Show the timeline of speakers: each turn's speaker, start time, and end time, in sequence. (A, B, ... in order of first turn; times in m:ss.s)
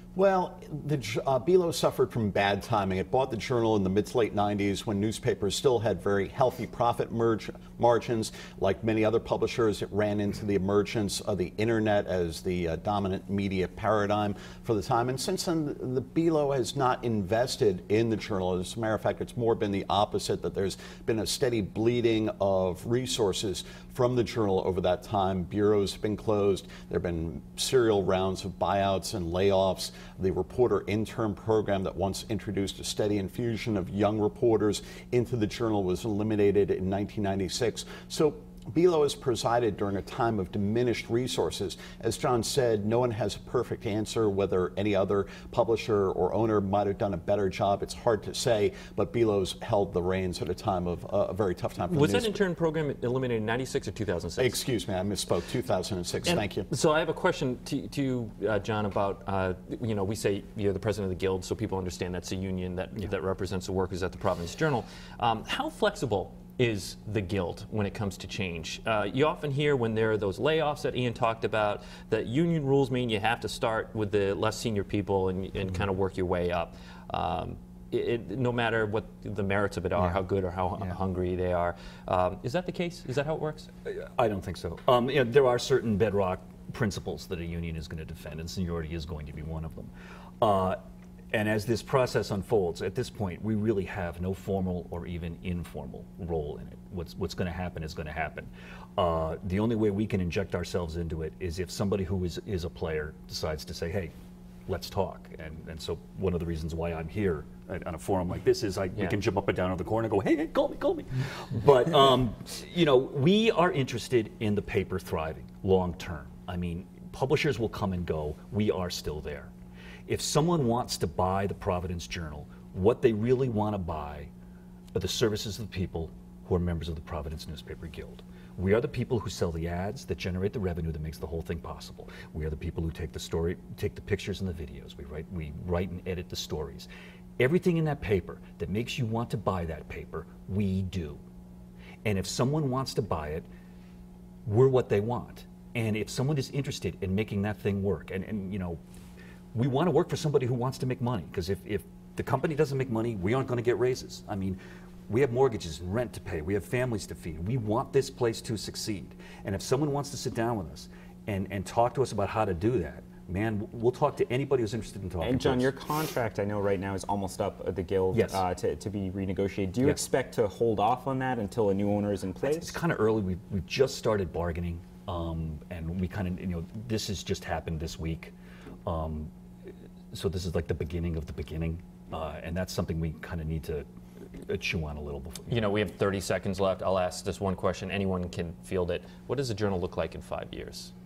0:00.2-0:52.4 A
0:51.9-0:54.6 B
0:54.4-0:56.7 A
0:56.2-1:23.7 B
1:23.8-1:30.8 C
1:31.3-1:44.1 C
1:44.7-1:59.5 C
2:00.1-2:04.3 C
2:04.9-2:16.9 C
2:17.4-2:21.2 C
2:22.0-2:23.5 C
2:24.4-2:28.8 C
2:29.5-2:45.7 C
2:45.2-2:52.8 D
2:48.1-2:48.4 C
2:52.5-2:58.3 C
2:58.9-2:59.3 C
3:00.1-3:03.9 C
3:04.4-3:05.6 C
3:05.5-3:10.9 B